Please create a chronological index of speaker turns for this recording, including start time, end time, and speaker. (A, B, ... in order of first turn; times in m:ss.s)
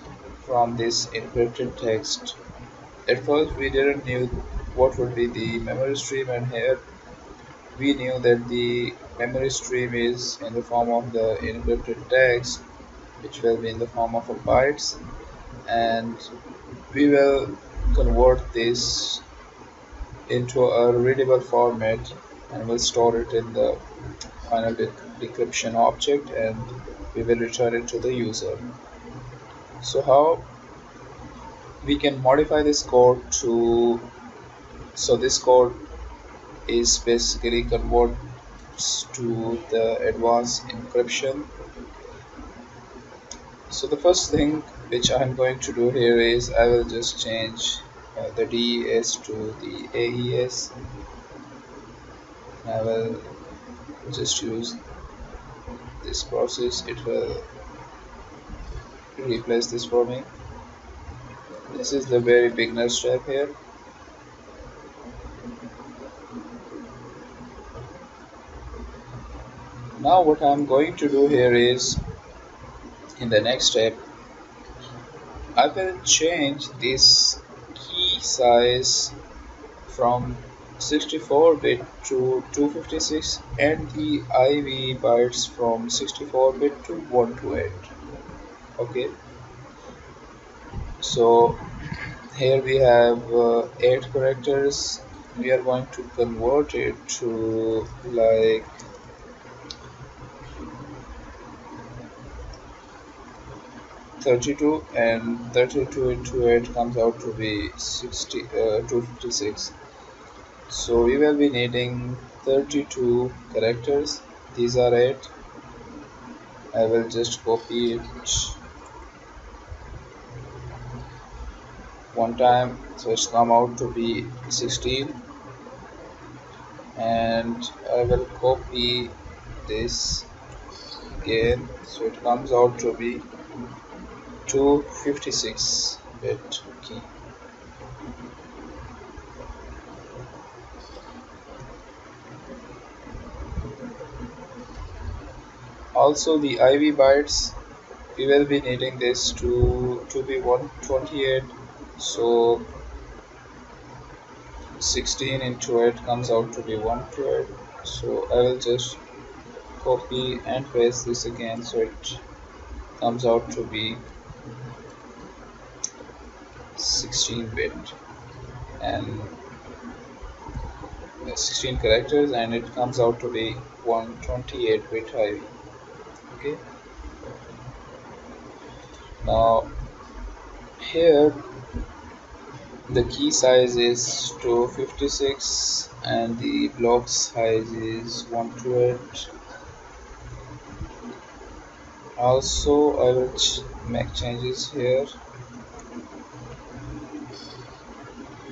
0:00.4-0:02.4 A
0:03.0-0:06.8 A
0:07.7-0:12.6 A
0:13.2-0:15.0 A
0:15.6-0:16.3 A
0:16.9-0:19.2 A
0:20.3-0:23.8 A
0:24.4-0:28.6 A
0:29.8-0:30.4 A
0:31.8-0:34.1 A
0:34.9-0:35.8 A
0:36.7-0:38.2 A
0:38.7-0:41.5 A
0:43.7-0:50.7 A
0:52.6-0:53.3 A
0:54.0-0:54.8 A
0:56.0-0:57.5 A
0:59.1-1:00.3 A
1:01.7-1:03.5 A
1:10.0-1:12.0 A
1:13.2-1:14.0 A
1:15.5-1:19.1 A
1:19.9-1:27.9 A
1:28.8-1:29.1 A
1:31.0-1:31.7 A
1:32.3-1:38.7 A
1:44.2-1:49.7 A
1:50.7-1:55.3 A
1:56.7-1:58.6 A
2:02.1-2:05.2 A
2:06.9-2:10.3 A
2:11.2-2:13.2 A
2:14.4-2:17.1 A
2:25.9-2:27.6 A
2:28.1-2:32.6 A
2:34.8-2:39.0 A
2:39.8-2:42.2 A
2:43.0-2:44.0 A
2:46.8-2:48.0 A
2:48.8-2:49.4 A
2:51.2-2:55.5 A
2:56.3-2:56.6 A
2:59.2-2:59.7 A
3:00.8-3:01.4 A
3:02.9-3:09.3 A
3:12.2-3:15.1 A